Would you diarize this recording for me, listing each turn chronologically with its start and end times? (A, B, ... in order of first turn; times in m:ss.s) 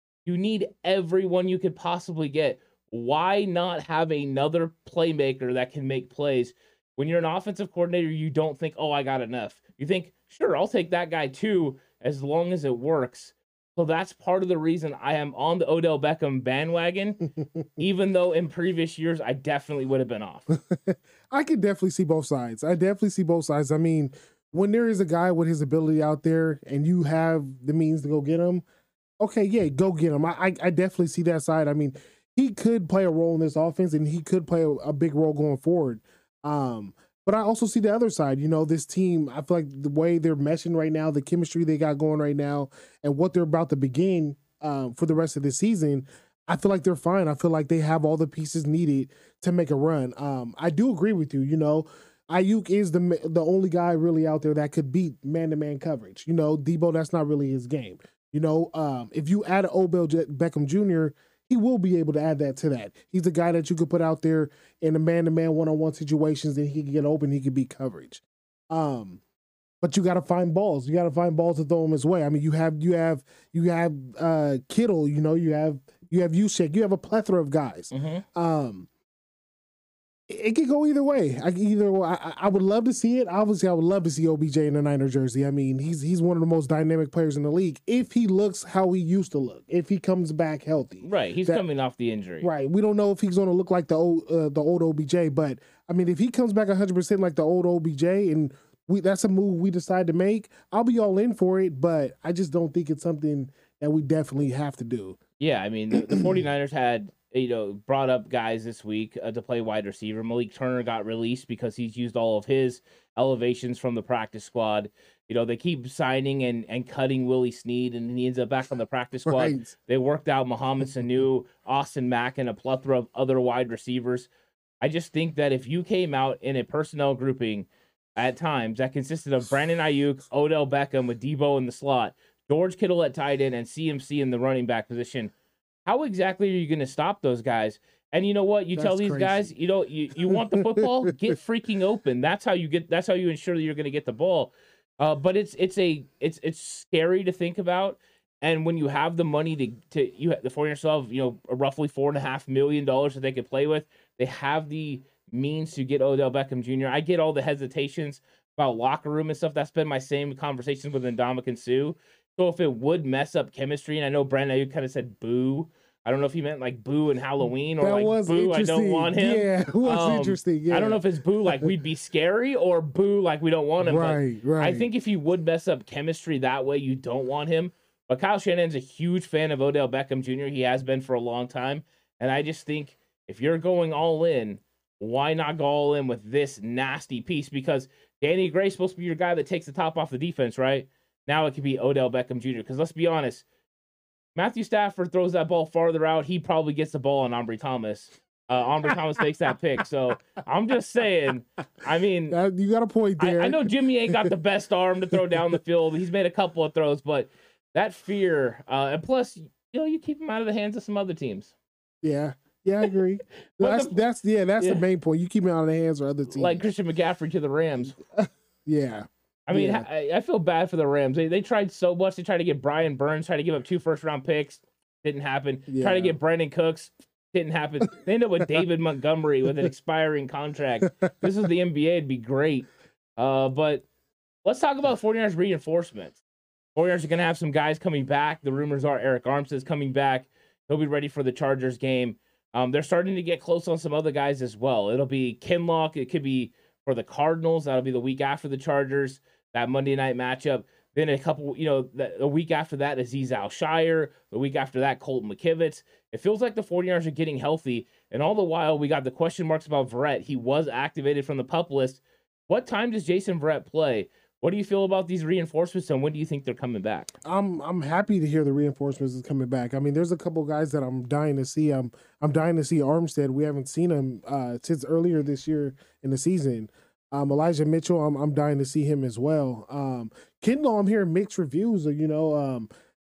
0:00.2-0:20.5 A
0:20.5-0:28.6 B
0:29.2-1:09.2 B
1:09.8-1:18.9 B
1:17.9-1:18.2 A
1:20.3-1:31.6 B
1:31.0-1:32.5 A
1:32.4-1:45.2 B
1:45.4-2:04.3 A
1:59.3-1:59.7 B
2:04.8-2:15.3 A
2:15.9-3:13.4 A
2:18.8-2:19.5 B
2:20.2-2:21.1 B
2:47.8-2:51.7 B
2:53.8-2:54.9 B
3:14.4-3:22.4 A
3:22.3-3:24.3 B
3:23.2-3:31.5 A
3:32.0-3:36.6 B
3:33.6-3:34.0 A
3:36.3-3:38.0 A
3:38.0-3:39.8 B
3:39.5-3:53.8 A
3:45.7-3:46.2 B
3:54.4-3:56.2 A
3:56.8-4:27.1 A
4:27.2-4:42.7 B